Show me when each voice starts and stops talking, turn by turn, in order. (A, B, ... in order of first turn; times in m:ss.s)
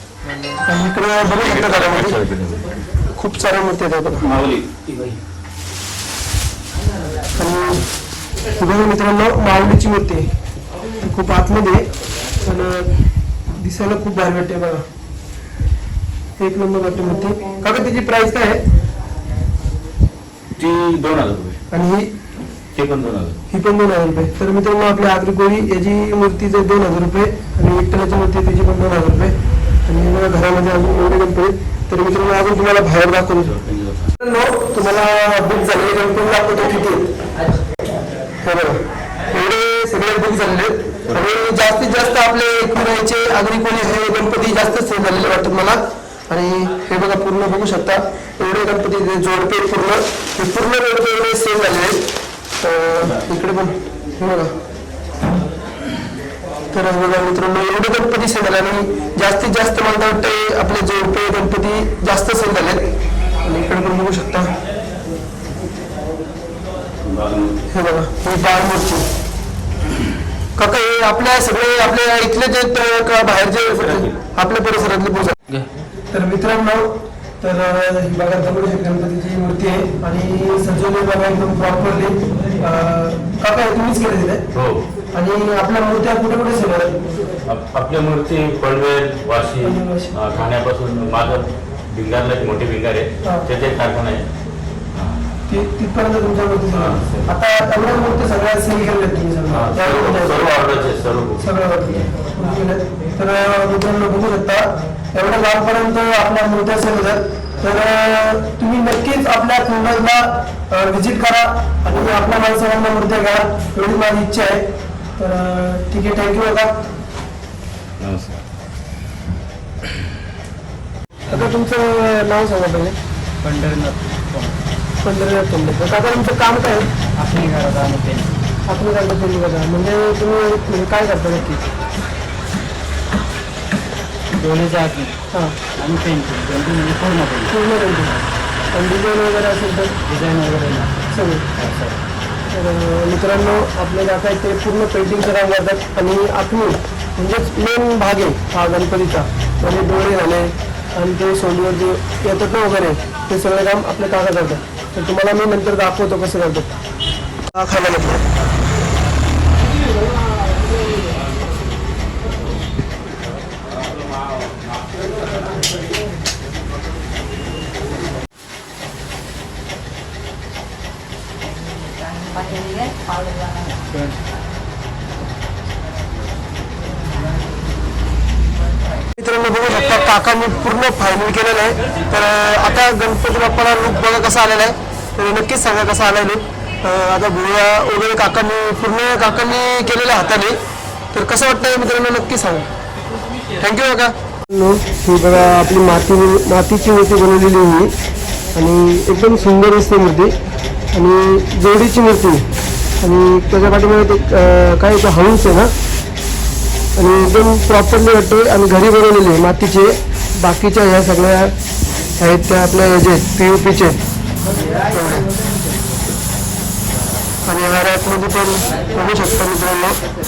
0:00.6-0:02.2 A
0:01.3-0:02.7 B
0:03.1-0:04.3 A
0:04.2-0:05.2 B
0:07.3-0:07.8 A
0:08.5-0:10.3 A
0:11.0-0:11.8 A
0:12.4-0:12.9 A
0:13.5-0:14.8 A
0:16.4-0:18.6 A
0:20.6-0:21.6 B
0:21.7-0:22.1 A
0:22.7-0:23.4 B
0:23.5-0:29.3 A
0:29.9-0:33.5 A
0:33.6-0:34.1 B
0:34.1-0:37.1 A
0:38.4-0:52.1 A
0:52.6-0:54.5 A
0:56.7-1:02.8 A
1:03.4-1:04.5 A
1:07.0-1:07.6 B
1:07.7-1:09.1 A
1:10.6-1:15.4 A
1:16.1-1:24.4 A
1:24.5-1:24.8 B
1:25.1-1:27.0 A
1:27.4-1:34.3 B
1:29.6-1:30.1 A
1:35.5-1:40.5 A
1:36.7-1:37.3 B
1:39.5-1:41.5 B
1:41.4-1:54.6 A
1:55.2-1:56.8 A
1:58.0-1:58.4 B
2:01.3-2:03.0 A
2:03.4-2:04.5 C
2:05.0-2:06.9 A
2:07.2-2:08.3 C
2:08.7-2:11.6 A
2:14.4-2:15.1 C
2:15.3-2:15.6 A
2:15.8-2:17.5 C
2:17.5-2:18.2 A
2:18.7-2:20.0 A
2:20.0-2:20.9 C
2:21.1-2:21.5 A
2:21.6-2:21.9 C
2:22.5-2:36.8 A
2:37.5-2:38.2 A
2:52.2-2:53.9 C
2:59.2-3:10.6 A
3:11.1-3:12.7 A
3:13.6-3:17.9 A
3:18.6-3:20.3 A
3:20.9-3:22.4 A
3:23.0-3:25.7 A
3:27.0-3:31.5 A
3:32.2-3:34.0 A
3:34.9-3:35.3 A
3:37.4-3:40.0 A